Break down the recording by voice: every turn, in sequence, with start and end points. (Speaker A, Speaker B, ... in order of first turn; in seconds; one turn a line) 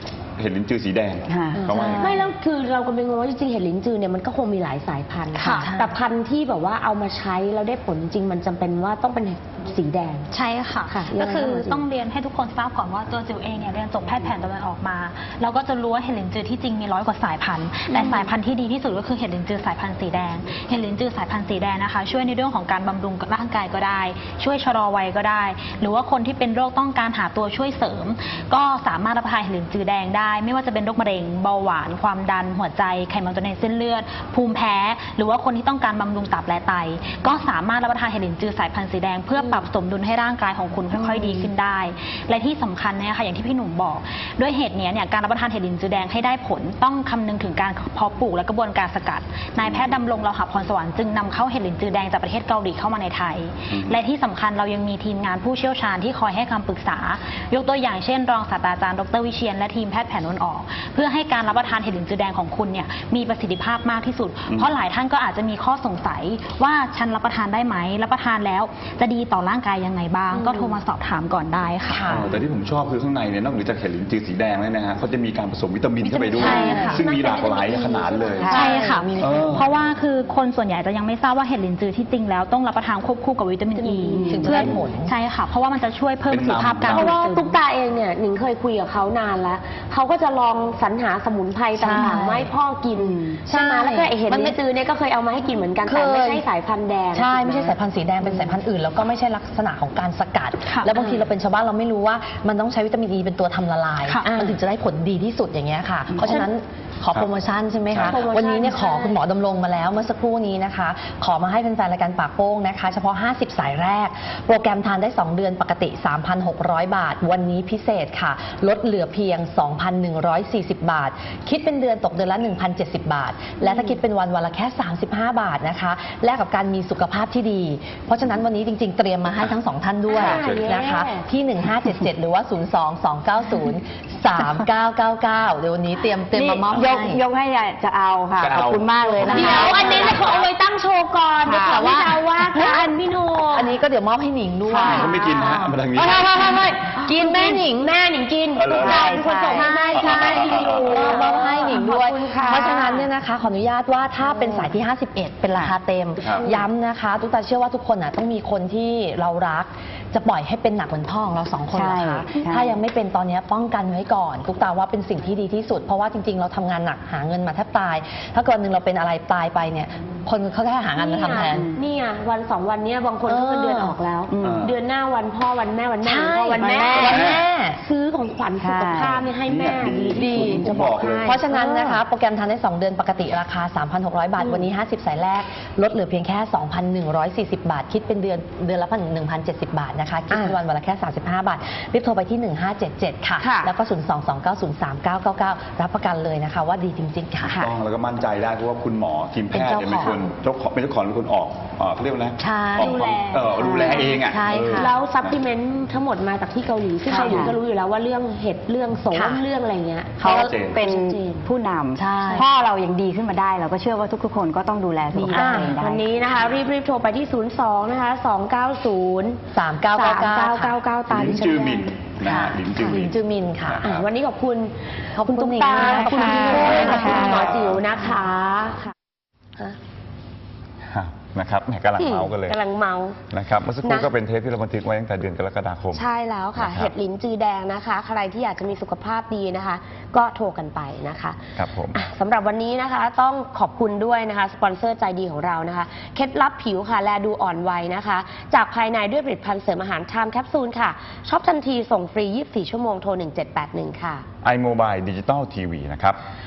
Speaker A: 0.4-2.1
Speaker B: 1.3-2.2
Speaker C: 1.6-10.3
Speaker D: 1.7-2.1
Speaker D: 5.3-6.0
Speaker E: 5.4-5.7
Speaker E: 10.3-72.1
Speaker C: 10.9-11.9
Speaker C: 17.9-18.3
Speaker C: 39.4-39.7
Speaker A: 49.6-49.9
Speaker A: 53.7-54.0
Speaker A: 64.5-64.7
Speaker C: 70.5-70.8
Speaker D: 71.8-72.3
Speaker A: 72.0-78.6
Speaker D: 76.0-77.0
Speaker E: 76.3-77.0
Speaker C: 76.3-78.9
Speaker B: 78.4-78.8
Speaker E: 78.5-87.6
Speaker D: 78.5-79.7
Speaker A: 79.2-79.7
Speaker C: 83.8-84.6
Speaker B: 84.1-84.5
Speaker D: 84.2-85.1
Speaker A: 86.3-87.2
Speaker C: 86.9-98.5
Speaker D: 91.8-92.5
Speaker B: 93.0-93.3
Speaker D: 93.5-94.6
Speaker D: 95.8-96.4
Speaker D: 97.1-137.2
Speaker C: 100.9-101.3
Speaker E: 104.0-104.3
Speaker C: 104.2-104.6
Speaker C: 106.2-106.5
Speaker A: 107.9-108.2
Speaker C: 108.0-109.2
Speaker C: 130.1-131.3
Speaker A: 130.3-130.7
Speaker B: 136.3-140.4
Speaker A: 138.4-139.4
Speaker D: 139.2-140.1
Speaker C: 139.2-143.7
Speaker B: 141.4-142.2
Speaker D: 141.7-142.9
Speaker D: 143.5-147.8
Speaker B: 144.7-145.1
Speaker C: 144.7-145.6
Speaker A: 144.8-146.7
Speaker C: 146.3-153.1
Speaker A: 148.5-149.2
Speaker B: 148.7-149.8
Speaker D: 149.5-171.7
Speaker A: 149.9-151.0
Speaker C: 154.2-154.7
Speaker C: 156.4-156.6
Speaker B: 161.7-162.8
Speaker C: 170.9-182.0
Speaker D: 173.2-174.0
Speaker B: 174.3-174.6
Speaker A: 174.4-174.8
Speaker D: 176.0-177.8
Speaker A: 176.9-177.4
Speaker B: 178.6-179.2
Speaker A: 179.4-181.4
Speaker D: 180.1-197.7
Speaker C: 184.4-184.7
Speaker B: 193.4-193.7
Speaker B: 197.4-197.7
Speaker A: 197.6-205.4
Speaker D: 199.5-200.3
Speaker D: 202.4-203.0
Speaker E: 202.8-204.1
Speaker B: 203.6-204.0
Speaker D: 204.2-204.9
Speaker C: 204.7-211.5
Speaker D: 207.1-207.5
Speaker B: 207.1-207.6
Speaker D: 209.1-209.4
Speaker B: 210.2-216.0
Speaker A: 210.3-210.8
Speaker D: 211.9-212.5
Speaker D: 215.1-215.8
Speaker C: 215.1-219.4
Speaker D: 219.5-220.8
Speaker C: 219.9-222.0
Speaker A: 221.1-224.1
Speaker D: 222.2-223.9
Speaker C: 222.6-223.0
Speaker C: 223.8-228.9
Speaker D: 225.2-227.4
Speaker B: 225.9-227.5
Speaker A: 226.6-227.8
Speaker A: 230.9-232.6
Speaker C: 232.0-233.2
Speaker A: 233.3-236.1
Speaker C: 233.8-234.1
Speaker C: 235.9-254.2
Speaker A: 236.6-236.9
Speaker A: 241.6-242.0
Speaker A: 254.4-256.2